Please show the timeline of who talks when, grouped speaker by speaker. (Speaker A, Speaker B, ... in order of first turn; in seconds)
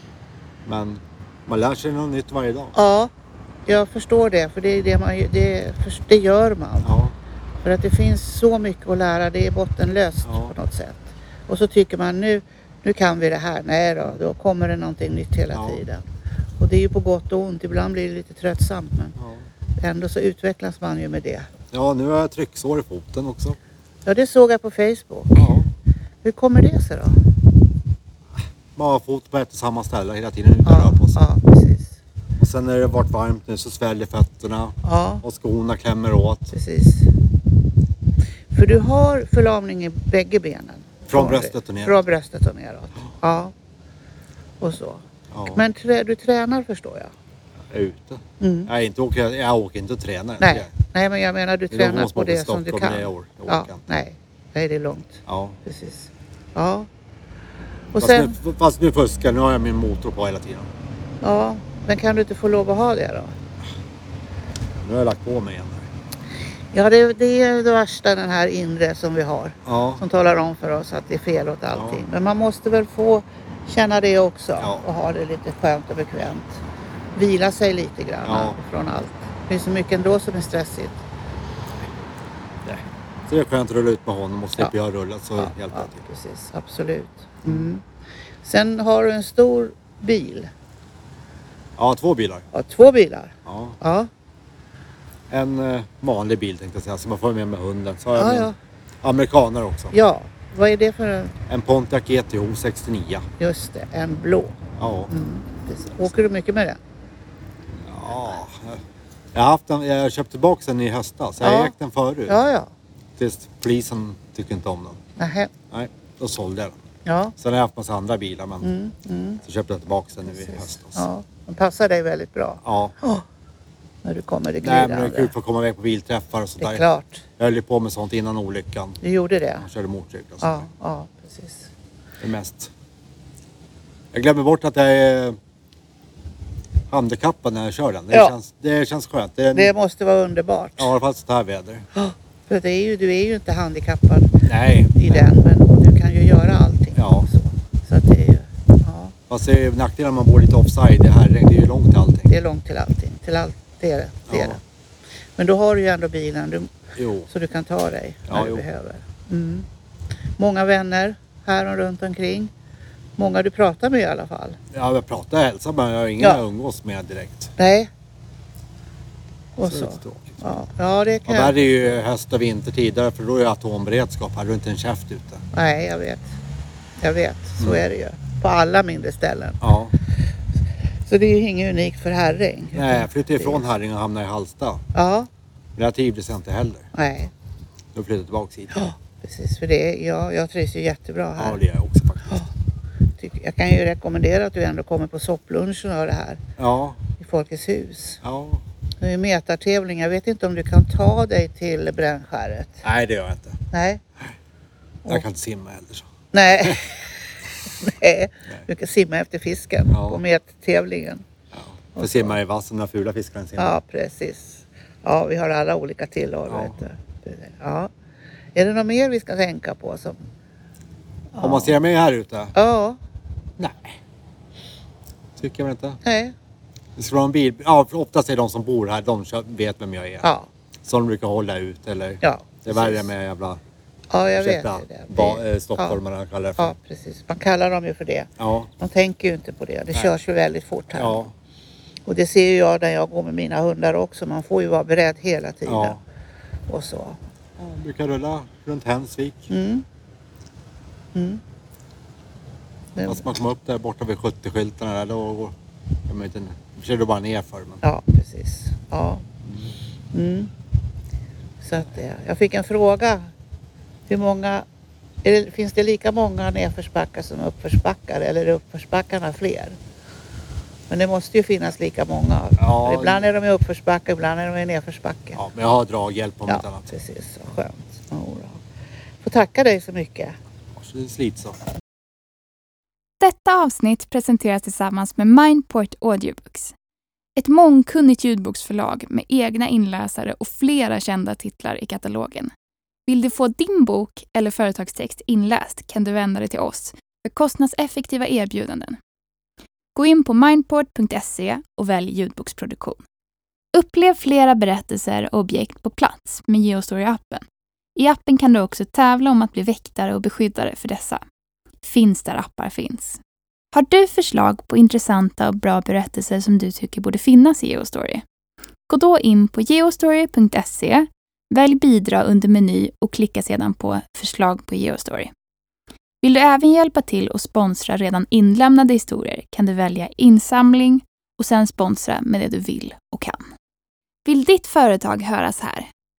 Speaker A: 0.6-2.7, 6.8-7.1, 10.2-10.5, 15.5-15.8, 19.2-19.4, 21.7-23.6, 25.4-25.7, 28.8-31.2, 32.4-36.5, 41.1-42.0, 45.3-45.6, 47.7-50.7, 51.7-53.9, 55.2-55.6, 58.0-60.7, 64.8-65.9, 69.6-70.0, 71.7-72.0, 74.6-74.8, 78.2-78.6, 82.6-86.0, 87.5-87.7, 91.8-92.5, 93.5-93.8, 95.3-99.9, 101.5-103.2, 104.8-105.1, 107.8-108.8, 109.3-112.4, 113.2-115.0, 115.7-116.8, 117.4-118.7, 119.4-121.0, 122.6-123.0, 124.6-126.8, 127.4-129.0, 129.6-130.7, 132.2-132.7, 134.1-135.4, 136.9-139.7, 140.8-141.8, 144.4-145.3, 146.9-147.3, 149.3-152.3, 154.3-154.6, 156.9-157.3, 158.3-158.6, 164.7-167.5, 169.7-170.4, 171.3-175.4, 179.6-179.9, 182.7-184.8, 185.8-186.9, 187.9-188.8, 191.3-192.4, 196.6-197.0, 198.2-198.6, 202.8-203.6, 205.1-206.1, 209.9-210.2, 211.5-213.8, 216.5-216.8, 221.4-222.5, 223.6-223.9, 225.4-226.0, 226.9-230.3, 230.8-233.6, 234.3-236.7, 238.4-238.7, 240.9-241.3, 245.7-246.0, 247.6-249.5, 253.0-255.5, 256.1-257.8, 272.6-273.3, 275.3-276.9, 280.8-281.6
Speaker B: 2.7-3.1, 3.6-6.9, 7.6-16.0, 16.6-19.2, 19.8-21.5, 24.1-25.5, 26.2-27.2, 30.6-31.9, 34.8-35.2, 36.5-37.1, 38.5-43.5, 44.6-47.1, 48.4-48.7, 50.4-56.9, 57.9-58.4, 61.2-63.4, 66.7-76.6, 77.1-81.0, 85.4-87.8, 88.4-90.5, 92.5-94.1, 98.1-98.5, 99.9-101.3, 103.4-104.6, 105.1-106.8, 111.4-111.7, 112.3-112.7, 115.2-115.5, 117.0-117.3, 118.6-119.4, 120.3-123.2, 124.0-125.3, 126.6-127.2, 129.0-129.6, 130.4-131.7, 139.5-140.9, 141.9-144.3, 144.9-149.1, 152.3-154.6, 155.3-156.7, 157.3-159.7, 160.4-162.5, 163.2-164.6, 167.6-167.9, 169.6-172.0, 175.5-176.3, 177.0-179.6, 181.0-183.7, 184.9-185.3, 186.9-187.3, 188.7-191.6, 193.2-196.4, 197.2-198.2, 199.0-202.8, 203.7-204.0, 206.3-207.1, 207.7-211.2, 212.0-212.3, 213.6-217.9, 218.5-220.2, 221.3-221.8, 222.5-223.0, 226.0-226.3, 230.2-230.5, 232.2-233.1, 234.1-236.0, 236.6-241.2, 242.1-246.0, 246.7-247.2, 249.5-249.8, 251.1-251.4, 252.9-253.3, 257.8-259.2, 260.1-260.5, 261.6-263.3, 264.1-264.6, 265.2-269.8, 270.9-275.4, 276.5-278.6, 279.2-280.4
Speaker C: 283.2-286.7, 287.4-292.5, 293.1-299.0, 299.9-303.0, 303.7-307.4, 307.9-311.2, 311.8-313.2, 313.7-318.2, 318.9-325.3, 326.2-333.4, 334.2-335.9